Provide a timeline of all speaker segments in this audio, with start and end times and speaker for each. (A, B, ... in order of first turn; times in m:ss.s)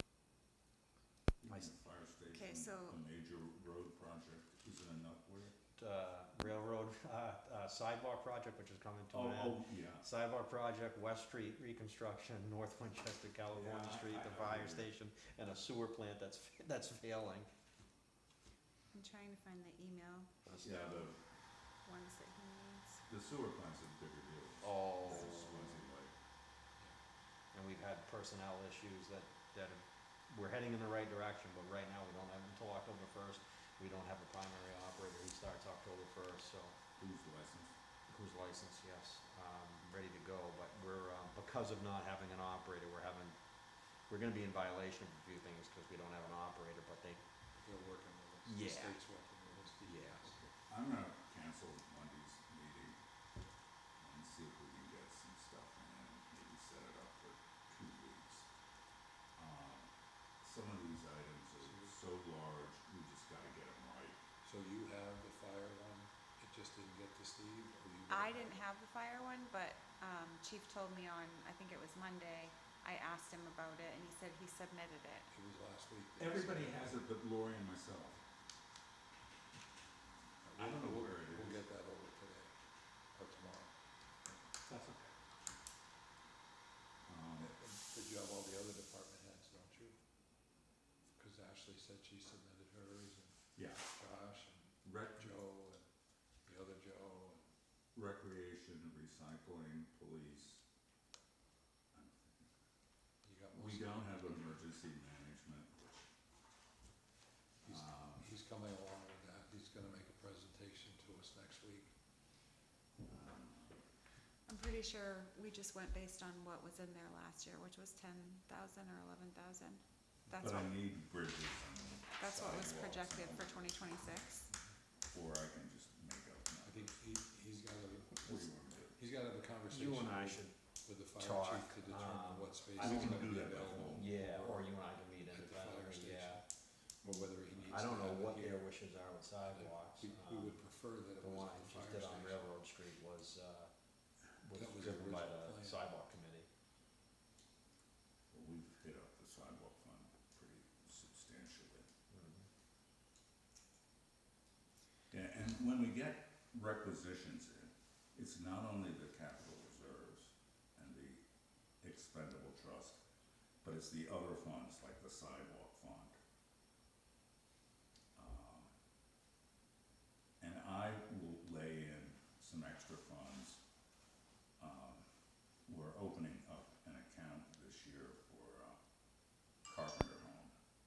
0:01.4-0:05.5 A
0:02.3-0:03.0 B
0:05.8-0:17.5 C
0:09.1-0:10.1 A
0:13.5-0:14.9 A
0:18.9-0:20.3 B
0:20.4-0:20.8 C
0:20.6-0:21.2 A
0:21.8-0:23.0 B
0:23.1-0:26.1 A
0:24.6-0:25.7 C
0:27.5-0:36.8 C
0:37.0-0:37.7 A
0:38.1-0:43.4 C
0:44.1-0:47.2 C
0:47.5-0:50.4 D
0:48.4-0:49.0 C
0:49.8-0:50.3 C
0:50.5-0:53.0 A
0:54.0-0:58.5 A
0:59.4-0:59.9 A
1:00.4-1:04.2 A
1:01.6-1:01.9 D
1:04.4-1:08.6 D
1:08.1-1:15.3 B
1:15.3-1:17.0 D
1:16.2-1:18.2 A
1:20.4-1:22.5 D
1:20.5-1:21.6 A
1:23.1-1:23.7 D
1:24.7-1:25.1 C
1:27.0-1:27.6 A
1:27.4-1:30.0 D
1:31.1-1:35.8 D
1:33.6-1:33.9 A
1:34.8-1:35.4 A
1:36.4-1:37.4 D
1:37.9-1:40.6 A
1:41.9-1:42.5 A
1:43.2-1:44.6 D
1:43.5-1:46.1 A
1:47.6-1:51.9 D
1:47.7-1:48.3 A
1:53.0-1:53.8 A
1:54.5-2:00.7 B
2:00.4-2:03.8 A
2:02.2-2:04.4 B
2:05.1-2:06.9 A
2:06.6-2:16.4 D
2:08.2-2:09.0 A
2:09.7-2:10.5 C
2:11.1-2:13.2 C
2:12.8-2:14.1 A
2:13.9-2:16.4 C
2:17.0-2:18.7 D
2:17.6-2:20.6 C
2:19.4-2:22.5 D
2:21.2-2:23.7 C
2:24.4-2:26.5 C
2:24.5-2:25.9 D
2:28.3-2:31.9 A
2:32.1-2:32.4 C
2:35.1-2:41.2 A
2:41.8-2:43.0 A
2:43.6-2:46.2 A
2:48.2-2:48.7 A
2:50.4-2:53.6 A
2:54.6-2:55.0 A
2:55.7-2:58.8 A
2:59.6-3:00.5 A